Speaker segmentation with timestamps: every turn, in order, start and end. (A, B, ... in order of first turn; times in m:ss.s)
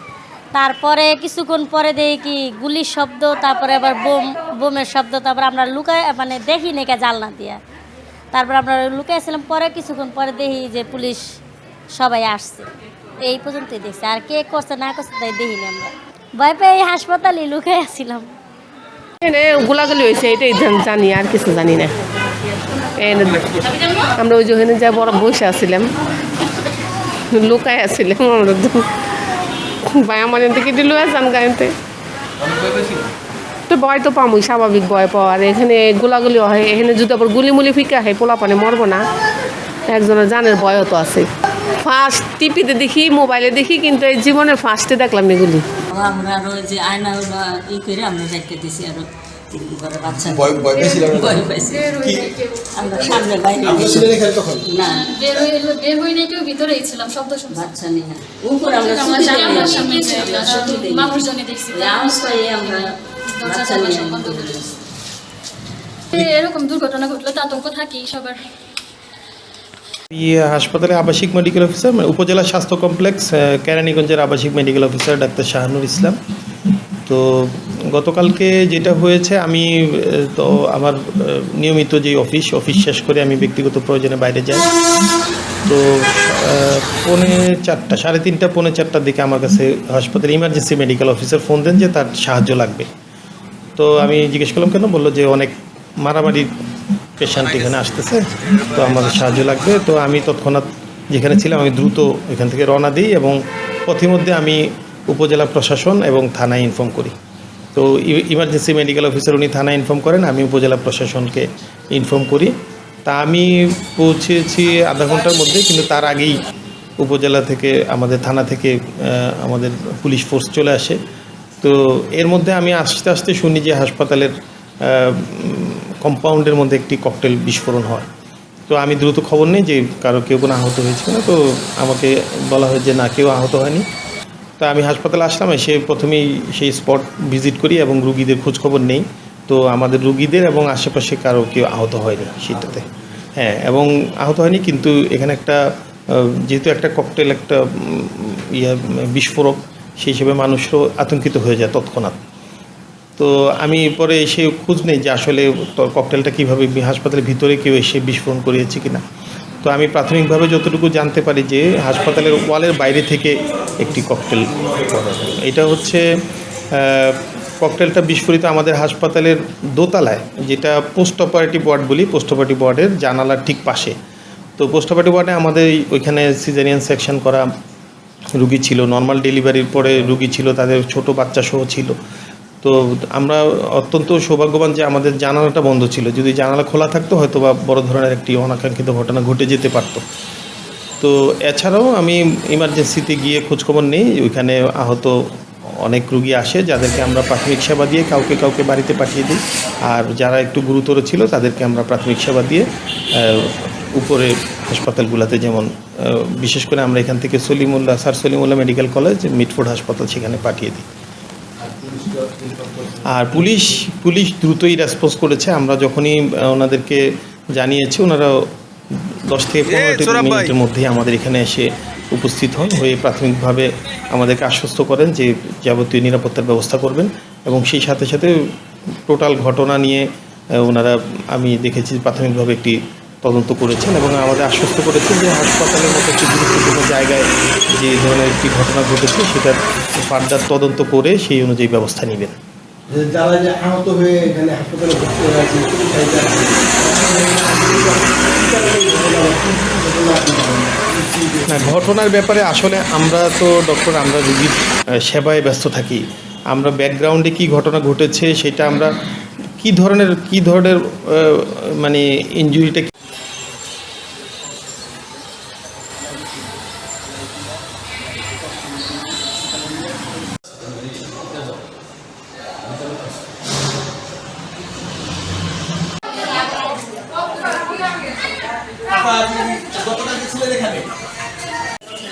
0:00.5-0:07.6 A
0:08.3-0:11.2 A
0:12.0-0:12.7 A
0:13.2-0:18.3 A
0:19.2-0:21.9 B
0:23.0-0:25.9 B
0:27.3-0:28.8 B
0:29.9-0:31.7 B
0:33.7-0:39.0 B
0:39.9-0:41.3 B
0:41.8-0:45.6 B
0:45.9-0:55.4 C
0:50.2-0:51.4 D
0:50.7-0:53.0 E
0:53.0-0:54.7 D
0:54.8-0:57.7 E
0:57.5-1:04.8 C
0:58.6-1:04.6 E
1:06.1-1:08.4 E
1:10.1-1:16.2 F
1:17.0-1:24.6 F
1:25.6-1:32.9 F
1:33.8-1:36.5 F
1:37.2-1:47.1 F
1:47.7-1:52.5 F
1:53.0-1:56.4 F
1:57.0-2:01.0 F
2:01.6-2:08.1 F
2:08.7-2:13.8 F
2:14.6-2:32.2 F
2:33.2-2:39.0 F
2:39.6-2:46.0 F
2:46.7-2:53.9 F
2:54.6-2:57.5 F
2:58.4-3:01.9 F
3:02.6-3:10.0 F
3:11.0-3:15.2 F
3:15.8-3:30.9 F
3:31.6-3:33.2 D
3:33.0-3:48.4 F
3:49.1-3:50.1 F
3:50.6-4:02.4 F
4:02.9-4:11.8 D
4:11.5-4:19.0 F
4:19.6-4:22.9 F